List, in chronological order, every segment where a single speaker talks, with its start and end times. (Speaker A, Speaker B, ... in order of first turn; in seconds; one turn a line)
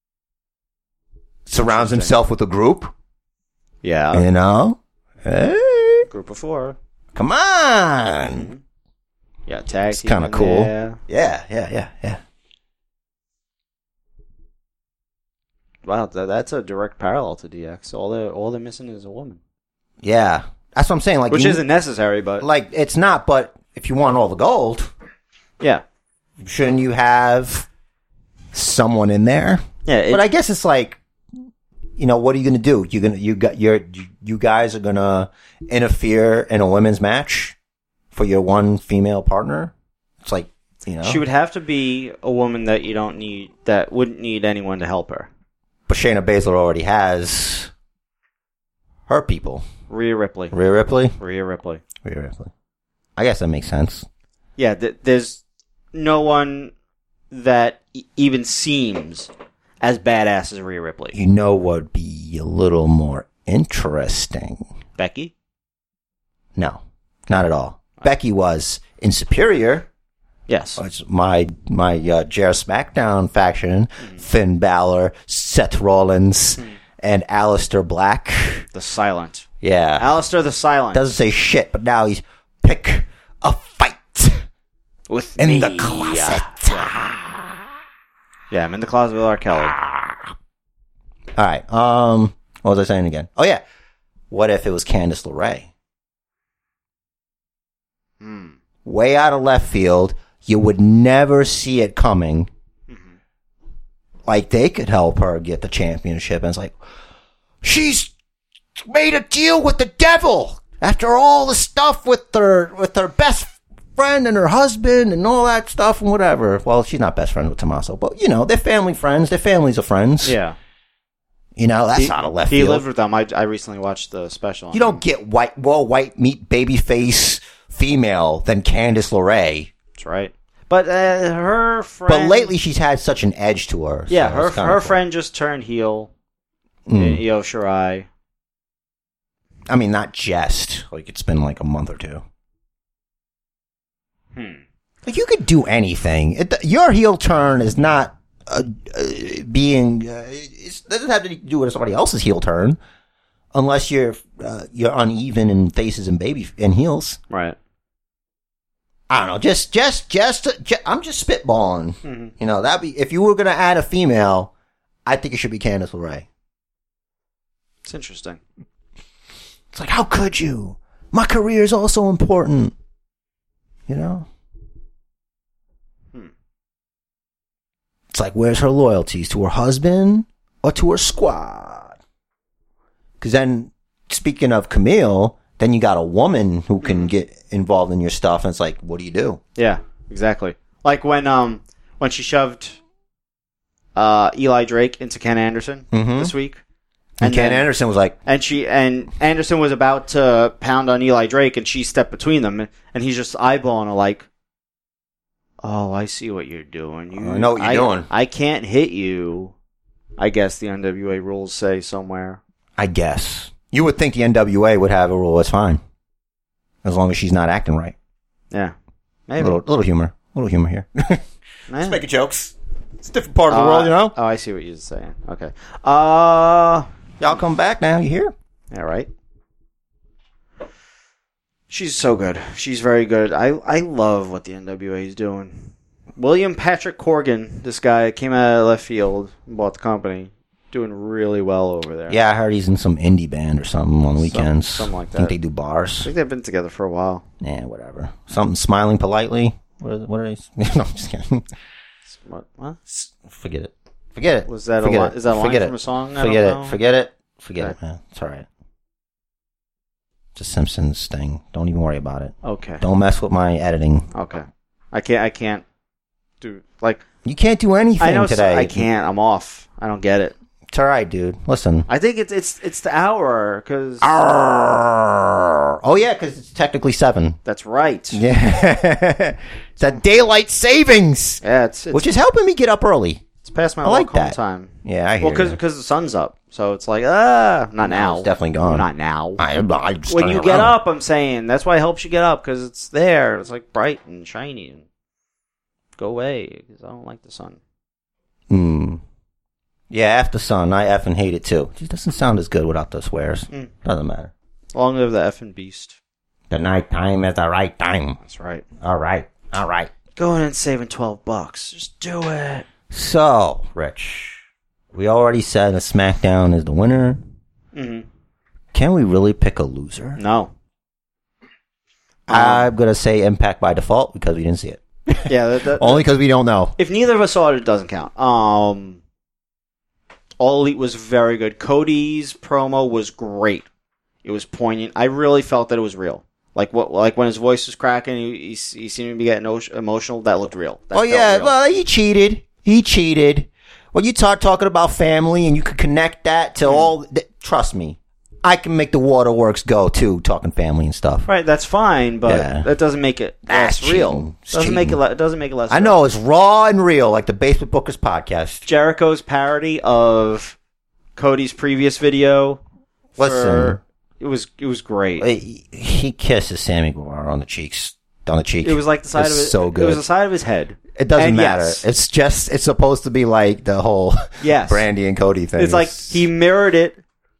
Speaker A: 1.5-2.9
Speaker B: 1.6-2.1
Speaker B: 3.8-4.3
Speaker A: 4.1-6.1
Speaker B: 6.1-6.8
Speaker A: 7.1-8.5
Speaker B: 8.3-8.6
Speaker B: 9.5-11.0
Speaker A: 9.9-12.2
Speaker B: 15.8-19.4
Speaker A: 20.0-21.6
Speaker B: 21.3-22.4
Speaker A: 22.4-24.9
Speaker A: 26.4-27.7
Speaker A: 28.5-31.0
Speaker B: 29.9-30.2
Speaker A: 32.0-37.5
Speaker A: 38.1-41.2
Speaker B: 41.0-45.3
Speaker A: 45.9-47.7
Speaker A: 49.1-49.6
Speaker B: 49.9-50.5
Speaker A: 50.5-51.1
Speaker B: 51.2-51.8
Speaker A: 52.0-52.5
Speaker A: 53.2-54.0
Speaker B: 54.6-55.4
Speaker B: 55.9-56.7
Speaker B: 57.3-61.1
Speaker A: 61.1-64.6
Speaker B: 65.0-65.3
Speaker A: 66.5-69.9
Speaker B: 70.5-70.8
Speaker A: 70.8-78.7
Speaker B: 78.7-79.5
Speaker A: 79.6-80.1
Speaker B: 80.0-81.0
Speaker A: 80.9-84.4
Speaker B: 85.1-86.9
Speaker A: 85.4-87.6
Speaker B: 88.5-89.8
Speaker A: 89.8-90.2
Speaker A: 91.3-93.6
Speaker A: 94.3-95.7
Speaker B: 98.2-98.6
Speaker A: 98.8-102.5
Speaker B: 102.9-103.2
Speaker A: 104.2-106.8
Speaker A: 107.6-108.1
Speaker A: 108.8-120.4
Speaker B: 120.2-120.6
Speaker A: 121.5-122.8
Speaker B: 122.0-125.0
Speaker A: 124.7-129.7
Speaker B: 130.0-132.5
Speaker A: 132.1-135.0
Speaker B: 134.1-136.1
Speaker A: 136.9-137.2
Speaker B: 136.9-138.1
Speaker A: 139.7-142.2
Speaker B: 144.3-144.6
Speaker A: 145.0-152.8
Speaker A: 153.5-157.2
Speaker B: 157.3-157.6
Speaker A: 159.1-164.5
Speaker B: 162.0-162.3
Speaker A: 165.1-166.2
Speaker B: 167.8-168.4
Speaker A: 169.7-172.7
Speaker A: 173.9-174.2
Speaker A: 178.1-182.0
Speaker A: 183.2-189.4
Speaker B: 186.8-187.1
Speaker B: 189.6-192.8
Speaker B: 193.9-196.6
Speaker A: 195.9-196.3
Speaker A: 197.2-198.2
Speaker B: 197.2-197.7
Speaker B: 198.2-204.2
Speaker B: 205.6-209.5
Speaker A: 207.1-208.1
Speaker B: 210.2-212.4
Speaker A: 212.8-215.8
Speaker A: 216.8-217.9
Speaker B: 219.3-219.6
Speaker A: 219.4-221.2
Speaker B: 221.7-222.0
Speaker A: 221.8-224.1
Speaker B: 223.5-227.3
Speaker A: 227.2-228.3
Speaker B: 228.7-229.1
Speaker B: 231.7-242.2
Speaker A: 242.1-246.1
Speaker B: 244.2-245.3
Speaker B: 246.0-247.2
Speaker A: 247.4-251.4
Speaker B: 252.1-252.8
Speaker A: 252.9-258.5
Speaker B: 254.5-256.8
Speaker A: 260.4-264.1
Speaker B: 262.4-262.8
Speaker B: 264.1-265.6
Speaker B: 266.4-267.0
Speaker A: 267.2-268.9
Speaker B: 268.0-270.3
Speaker A: 270.7-271.9
Speaker B: 271.9-274.1
Speaker A: 274.0-277.4
Speaker B: 277.4-278.2
Speaker A: 278.1-281.4
Speaker B: 281.4-282.1
Speaker A: 281.9-283.2
Speaker B: 283.4-289.4
Speaker A: 283.8-285.6
Speaker A: 287.8-290.8
Speaker B: 290.1-294.9
Speaker B: 296.0-297.6
Speaker A: 298.5-299.0
Speaker A: 299.9-304.3
Speaker B: 304.7-306.0
Speaker A: 306.5-308.2
Speaker B: 308.2-308.6
Speaker A: 308.8-309.9
Speaker B: 310.2-312.6
Speaker A: 312.9-314.4
Speaker A: 314.9-317.2
Speaker B: 317.7-318.1
Speaker A: 318.7-320.2
Speaker B: 320.2-320.5
Speaker B: 322.3-322.7
Speaker A: 322.3-326.7
Speaker B: 325.2-326.0
Speaker B: 326.8-329.0
Speaker B: 330.4-333.7
Speaker B: 334.2-341.5
Speaker A: 340.9-351.3
Speaker B: 346.6-346.9
Speaker B: 351.2-356.0
Speaker A: 352.2-352.6
Speaker A: 353.5-355.0
Speaker A: 355.7-358.6
Speaker B: 358.6-360.6
Speaker B: 361.1-362.6
Speaker A: 363.2-363.8
Speaker B: 363.2-365.3
Speaker A: 365.2-370.0
Speaker B: 368.6-371.8
Speaker A: 370.9-376.3
Speaker B: 374.4-374.9
Speaker B: 375.6-377.0